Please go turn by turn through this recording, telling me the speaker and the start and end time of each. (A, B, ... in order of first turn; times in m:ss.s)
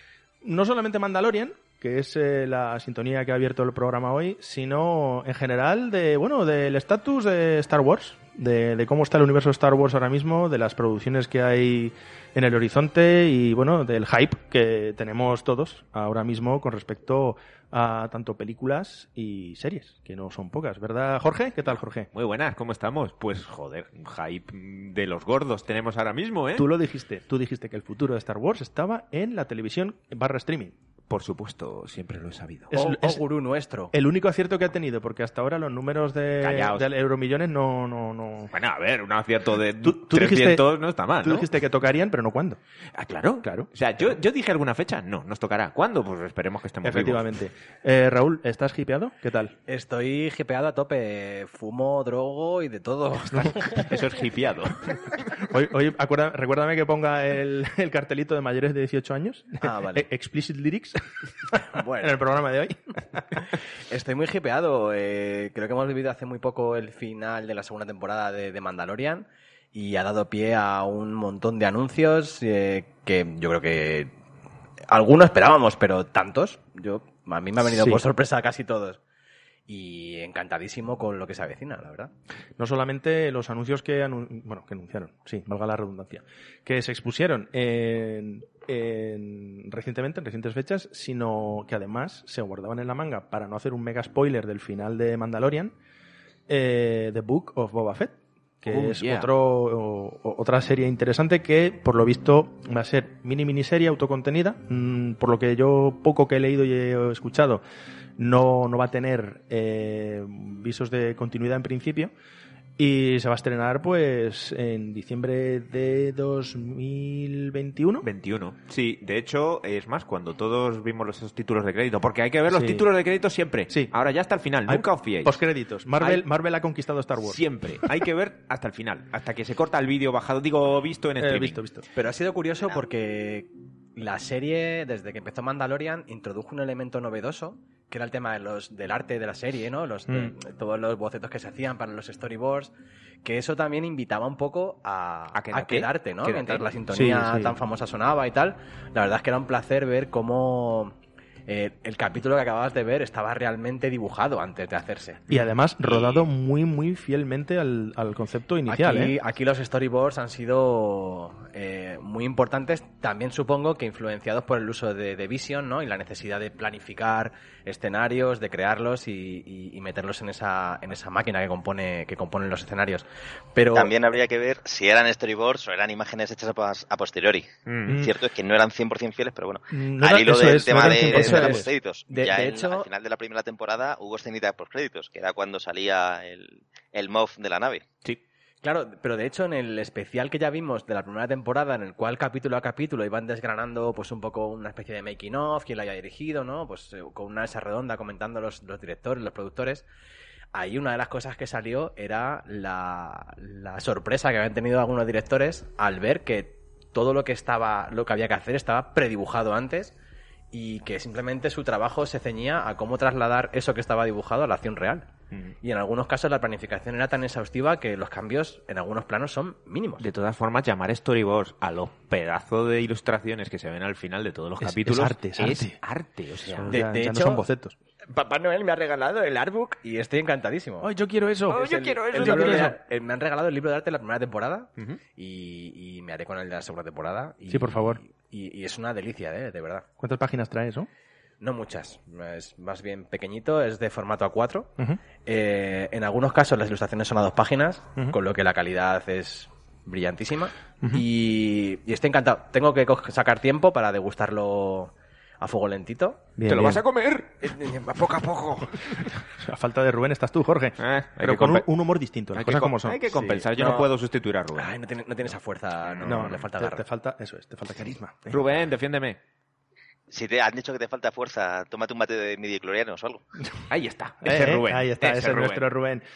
0:00.4-0:22.1 A
0:22.1-0:26.7 B
0:26.6-0:30.7 A
0:31.1-0:32.8 B
0:32.7-0:33.2 A
0:32.7-0:33.9 C
0:33.9-0:38.5 A
0:36.4-0:36.9 B
0:38.5-0:41.5 B
0:39.8-0:40.6 A
0:41.2-0:42.6 A
0:42.9-0:47.2 B
0:43.4-0:43.7 A
0:46.8-0:49.6 A
0:49.7-0:54.0 C
0:53.7-0:55.4 B
0:55.4-1:03.5 A
0:59.6-1:00.1 C
1:01.7-1:02.2 C
1:03.9-1:14.1 C
1:14.9-1:19.0 C
1:17.7-1:18.0 A
1:19.7-1:22.1 C
1:22.6-1:35.7 A
1:36.5-1:47.6 A
1:38.7-1:39.3 B
1:48.2-1:52.1 A
1:52.8-1:58.1 A
1:58.0-2:05.4 B
2:02.5-2:02.9 A
2:04.7-2:07.4 A
2:06.0-2:06.2 B
2:07.2-2:11.6 B
2:11.2-2:11.8 A
2:11.9-2:22.7 C
2:20.1-2:20.3 A
2:23.2-2:31.0 C
2:25.3-2:26.7 B
2:26.9-2:27.5 A
2:31.5-2:35.3 C
2:35.3-2:39.1 A
2:35.8-2:36.2 C
2:38.7-2:53.9 C
2:53.7-3:07.8 D
2:57.7-2:58.0 B
2:57.9-2:58.2 A
2:59.7-3:01.7 A
3:00.8-3:02.9 C
3:08.6-3:19.8 C
3:20.5-3:30.0 C
3:30.5-3:35.1 C
3:35.6-3:40.0 C
3:40.0-3:46.7 B
3:44.6-3:45.8 A
3:46.5-3:47.7 A
3:46.7-3:47.4 C
3:48.1-3:50.9 C
3:50.8-3:52.8 A
3:51.5-3:59.9 C
3:51.5-3:52.8 B
3:57.5-3:58.0 A
4:00.0-4:00.9 A
4:01.4-4:16.3 C
4:16.4-4:16.8 A
4:16.4-4:17.5 B
4:17.4-4:18.8 C
4:19.3-4:23.4 A
4:20.8-4:21.6 B
4:22.3-4:24.8 B
4:23.5-4:23.9 C
4:24.5-4:26.8 C
4:26.0-4:28.5 A
4:28.3-4:29.2 B
4:30.1-4:33.2 D
4:33.7-4:35.7 B
4:34.2-4:36.0 A